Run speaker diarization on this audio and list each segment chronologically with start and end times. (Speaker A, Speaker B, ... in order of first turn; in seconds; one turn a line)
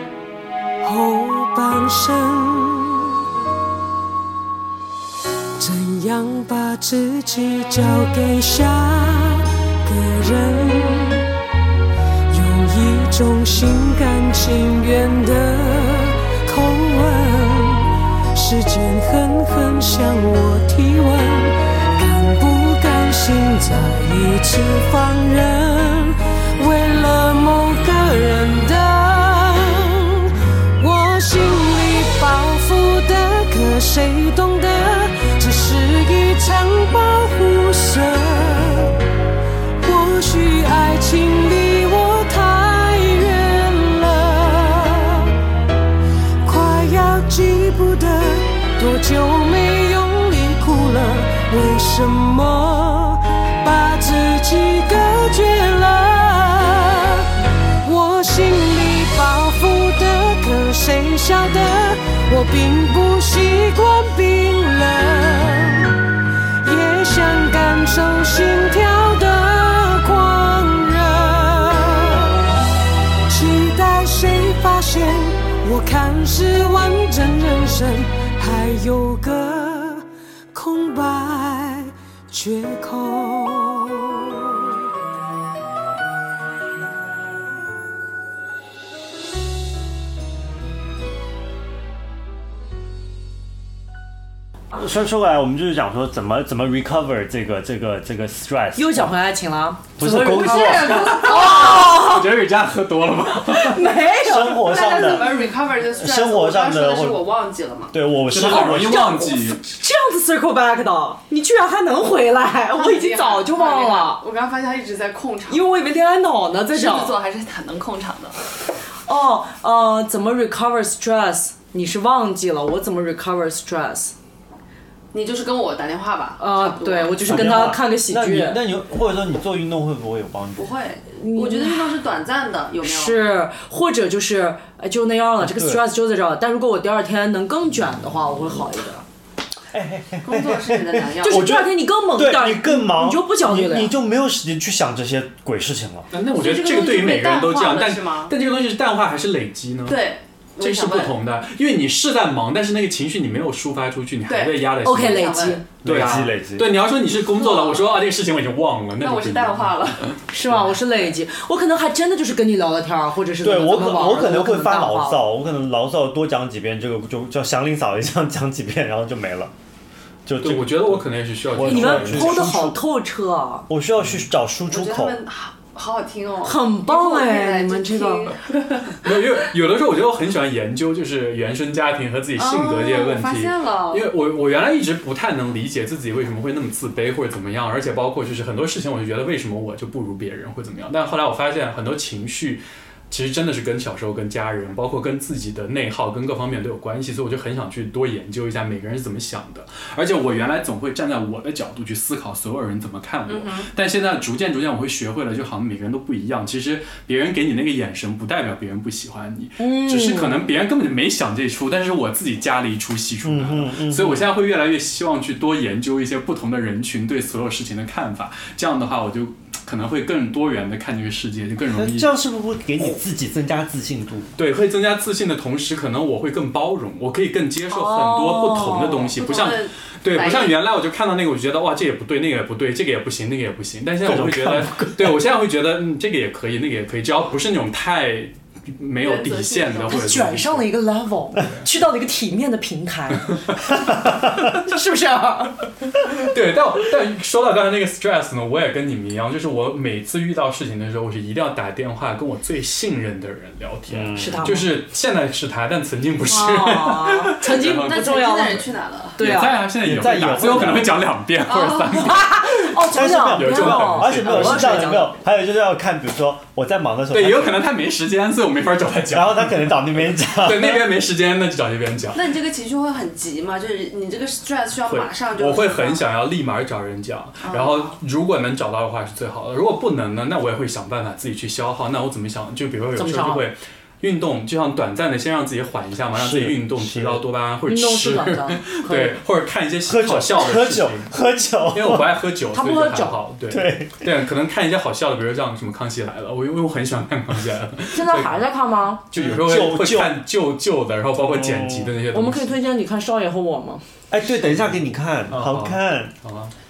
Speaker A: 0.8-3.1
Speaker A: 5.6-11.2
Speaker A: 12.3-38.9
Speaker A: 39.8-45.3
Speaker A: 46.4-57.3
Speaker A: 57.8-65.9
Speaker A: 66.6-72.3
Speaker A: 73.3-84.7
Speaker B: 94.7-99.1
Speaker C: 98.8-102.3
Speaker B: 100.0-101.2
Speaker D: 100.3-101.9
Speaker E: 101.2-104.0
Speaker C: 103.4-105.2
Speaker B: 104.2-107.3
Speaker D: 104.6-108.0
Speaker B: 107.9-109.2
Speaker E: 108.3-109.6
Speaker C: 108.4-114.2
Speaker D: 112.7-115.7
Speaker C: 115.5-117.2
Speaker D: 116.7-118.4
Speaker C: 119.0-124.1
Speaker D: 125.1-127.5
Speaker C: 126.4-128.6
Speaker B: 127.2-130.7
Speaker D: 130.6-133.2
Speaker C: 131.1-131.9
Speaker C: 132.8-139.0
Speaker B: 135.4-135.8
Speaker B: 139.7-146.1
Speaker D: 140.2-141.6
Speaker C: 141.2-143.9
Speaker E: 146.1-150.0
Speaker D: 146.4-148.3
Speaker D: 149.9-151.1
Speaker E: 150.6-160.6
Speaker D: 154.3-155.6
Speaker C: 154.8-155.6
Speaker B: 155.8-156.7
Speaker D: 157.3-158.0
Speaker D: 159.0-160.1
Speaker C: 160.3-165.2
Speaker B: 163.4-169.5
Speaker B: 170.2-172.8
Speaker E: 170.4-172.7
Speaker C: 171.6-173.7
Speaker B: 173.7-175.2
Speaker D: 174.7-179.0
Speaker C: 176.4-178.3
Speaker E: 179.0-222.1
Speaker D: 182.3-184.1
Speaker D: 203.3-203.7
Speaker C: 209.6-210.5
Speaker B: 213.2-214.3
Speaker B: 221.7-224.3
Speaker E: 224.3-240.7
Speaker C: 227.7-229.2
Speaker D: 229.2-230.6
Speaker B: 234.0-235.2
Speaker D: 239.0-240.3
Speaker C: 239.9-243.8
Speaker C: 244.4-245.6
Speaker E: 246.1-258.1
Speaker B: 253.9-254.5
Speaker C: 254.2-254.7
Speaker C: 256.2-259.6
Speaker D: 257.5-259.2
Speaker E: 259.2-264.9
Speaker B: 259.8-261.0
Speaker D: 261.5-262.2
Speaker C: 262.0-265.2
Speaker B: 262.9-267.7
Speaker E: 267.1-272.3
Speaker B: 269.1-270.9
Speaker D: 272.1-276.0
Speaker E: 274.9-291.1
Speaker D: 277.4-277.9
Speaker C: 282.9-283.4
Speaker B: 286.1-287.2
Speaker C: 287.7-289.2
Speaker B: 289.9-292.2
Speaker E: 291.7-298.4
Speaker C: 292.5-293.2
Speaker B: 293.5-294.1
Speaker C: 297.9-299.0
Speaker E: 299.1-302.6
Speaker B: 299.1-300.2
Speaker B: 301.2-301.9
Speaker C: 302.1-303.8
Speaker B: 304.1-306.1
Speaker E: 305.3-306.5